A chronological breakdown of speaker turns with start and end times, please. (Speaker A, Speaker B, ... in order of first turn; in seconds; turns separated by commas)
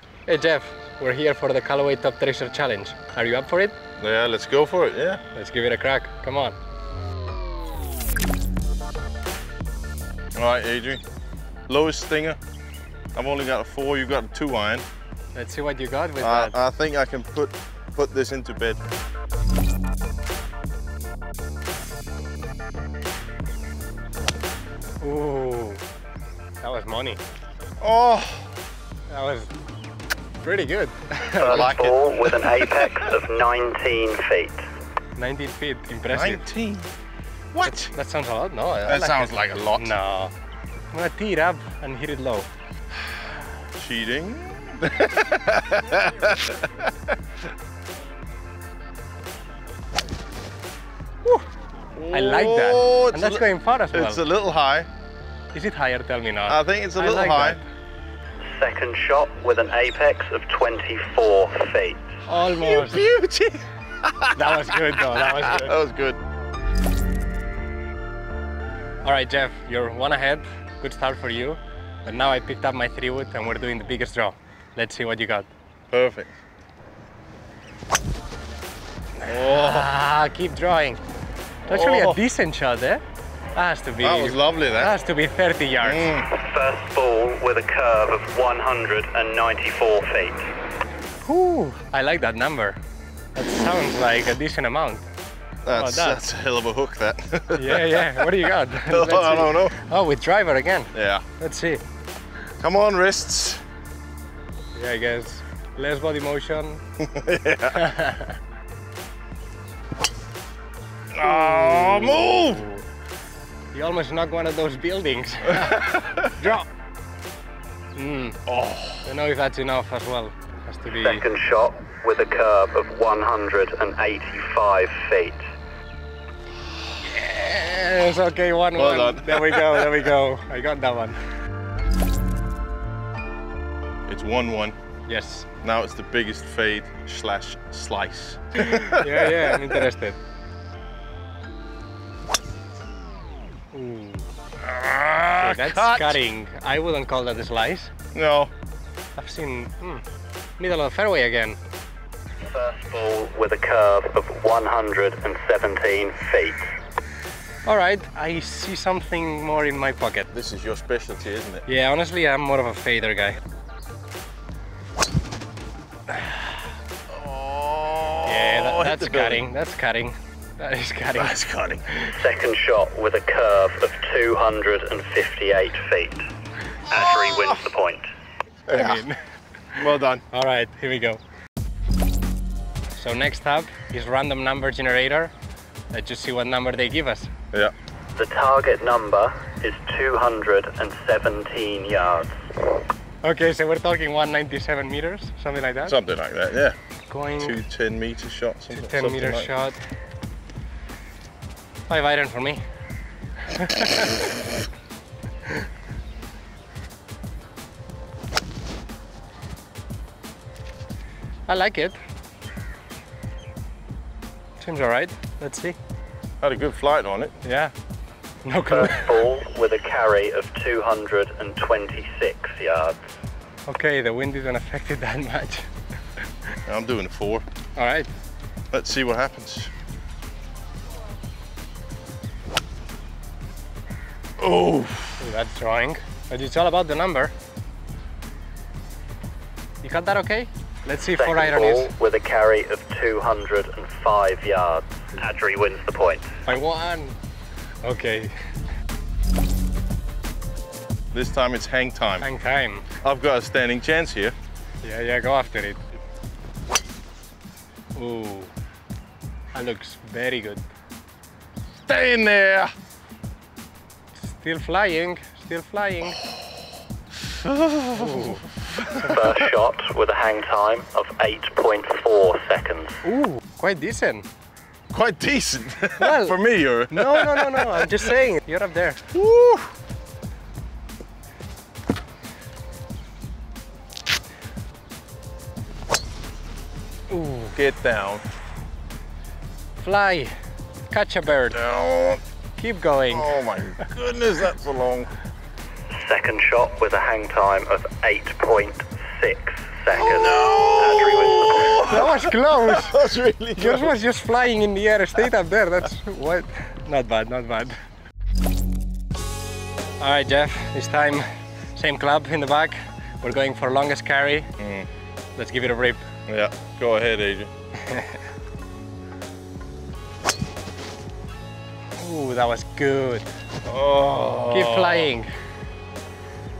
Speaker A: 0.3-3.8, Speaker B: 4.0-5.2, Speaker A: 5.3-6.5, Speaker B: 10.3-11.0, Speaker B: 11.7-12.4, Speaker B: 13.1-14.8, Speaker A: 15.3-16.6, Speaker B: 16.2-18.8, Speaker A: 25.0-25.8, Speaker A: 26.6-27.2, Speaker B: 27.8-28.5, Speaker A: 29.1-29.5, Speaker A: 30.4-31.7, Speaker B: 31.4-32.9, Speaker C: 31.4-34.6, Speaker A: 35.2-36.5, Speaker B: 36.1-36.9, Speaker B: 37.5-37.9, Speaker A: 37.8-40.3, Speaker B: 38.9-39.9, Speaker A: 40.9-42.5, Speaker B: 43.7-46.9, Speaker B: 51.9-54.9, Speaker A: 52.1-54.2, Speaker A: 55.5-57.6, Speaker B: 56.5-57.6, Speaker C: 58.5-62.1, Speaker A: 62.3-63.0, Speaker B: 62.5-66.2, Speaker A: 64.3-65.7, Speaker A: 69.0-75.5, Speaker B: 75.9-76.3, Speaker A: 79.2-81.0, Speaker B: 79.2-79.9, Speaker B: 81.7-82.2, Speaker A: 81.7-83.0, Speaker A: 83.5-86.1, Speaker B: 84.0-84.9, Speaker B: 85.8-86.3, Speaker C: 86.3-90.5, Speaker A: 91.2-92.8, Speaker A: 93.3-95.0, Speaker B: 95.6-99.8, Speaker A: 95.7-96.2, Speaker A: 97.5-101.8, Speaker B: 100.9-101.2, Speaker B: 102.6-103.6, Speaker A: 104.7-106.8, Speaker B: 107.0-107.8, Speaker A: 107.7-108.4, Speaker B: 111.1-112.6, Speaker A: 111.2-112.8, Speaker A: 113.7-116.7, Speaker B: 115.6-116.2, Speaker A: 117.9-118.4, Speaker B: 118.5-119.0, Speaker A: 119.0-121.2, Speaker C: 121.0-125.4, Speaker A: 127.1-131.2, Speaker B: 128.7-130.1, Speaker B: 134.1-134.8, Speaker A: 135.1-135.5, Speaker B: 135.6-139.8, Speaker A: 138.6-140.2, Speaker A: 143.7-144.3, Speaker B: 144.6-146.2, Speaker A: 145.4-147.9, Speaker B: 148.1-148.5, Speaker A: 149.2-150.0, Speaker A: 150.6-151.6, Speaker C: 152.4-156.7, Speaker A: 157.7-160.3, Speaker B: 160.3-161.7, Speaker A: 161.7-163.4, Speaker A: 166.1-166.4, Speaker B: 167.1-169.4, Speaker A: 168.2-171.4, Speaker B: 171.2-171.8, Speaker C: 172.2-176.2, Speaker C: 176.9-178.0, Speaker B: 178.7-179.0, Speaker A: 178.7-179.2, Speaker A: 179.8-181.2, Speaker B: 179.8-180.2, Speaker A: 182.9-185.3, Speaker A: 185.9-187.3, Speaker C: 188.2-192.6, Speaker A: 193.2-195.9, Speaker B: 195.8-196.8, Speaker A: 197.1-197.6, Speaker B: 197.4-199.5, Speaker A: 198.7-199.8, Speaker A: 201.9-202.6, Speaker A: 203.5-204.2, Speaker A: 211.5-212.0, Speaker A: 214.6-215.8, Speaker B: 216.4-217.3, Speaker A: 217.4-217.7, Speaker A: 218.4-219.2, Speaker C: 218.7-223.0, Speaker A: 223.7-225.7, Speaker B: 226.7-227.4, Speaker A: 227.8-228.1, Speaker B: 228.7-229.7, Speaker B: 234.4-235.2, Speaker A: 235.2-237.3, Speaker A: 239.8-241.9, Speaker C: 241.1-246.4, Speaker A: 246.4-247.2, Speaker A: 247.8-248.3, Speaker B: 251.1-252.3, Speaker A: 252.2-252.8, Speaker B: 253.0-254.3, Speaker A: 254.8-255.8, Speaker A: 257.9-258.5, Speaker A: 259.5-260.7, Speaker B: 261.8-262.7, Speaker A: 264.1-266.2, Speaker B: 267.4-269.4, Speaker A: 267.9-268.4, Speaker C: 269.0-273.0, Speaker A: 273.0-274.2, Speaker B: 274.9-278.0, Speaker A: 276.0-279.0, Speaker B: 279.1-279.7, Speaker A: 287.1-287.5, Speaker B: 287.5-288.2, Speaker A: 289.8-290.3, Speaker A: 290.9-291.6, Speaker B: 291.5-292.2, Speaker A: 292.6-293.3, Speaker B: 293.1-295.1, Speaker C: 295.9-301.9, Speaker B: 299.9-303.9, Speaker A: 301.8-303.0, Speaker A: 303.6-307.7, Speaker A: 310.0-314.5, Speaker B: 314.6-314.9, Speaker A: 315.4-316.0, Speaker B: 316.3-317.5, Speaker A: 317.9-318.2, Speaker A: 322.0-323.3, Speaker B: 323.6-325.1, Speaker A: 324.4-325.3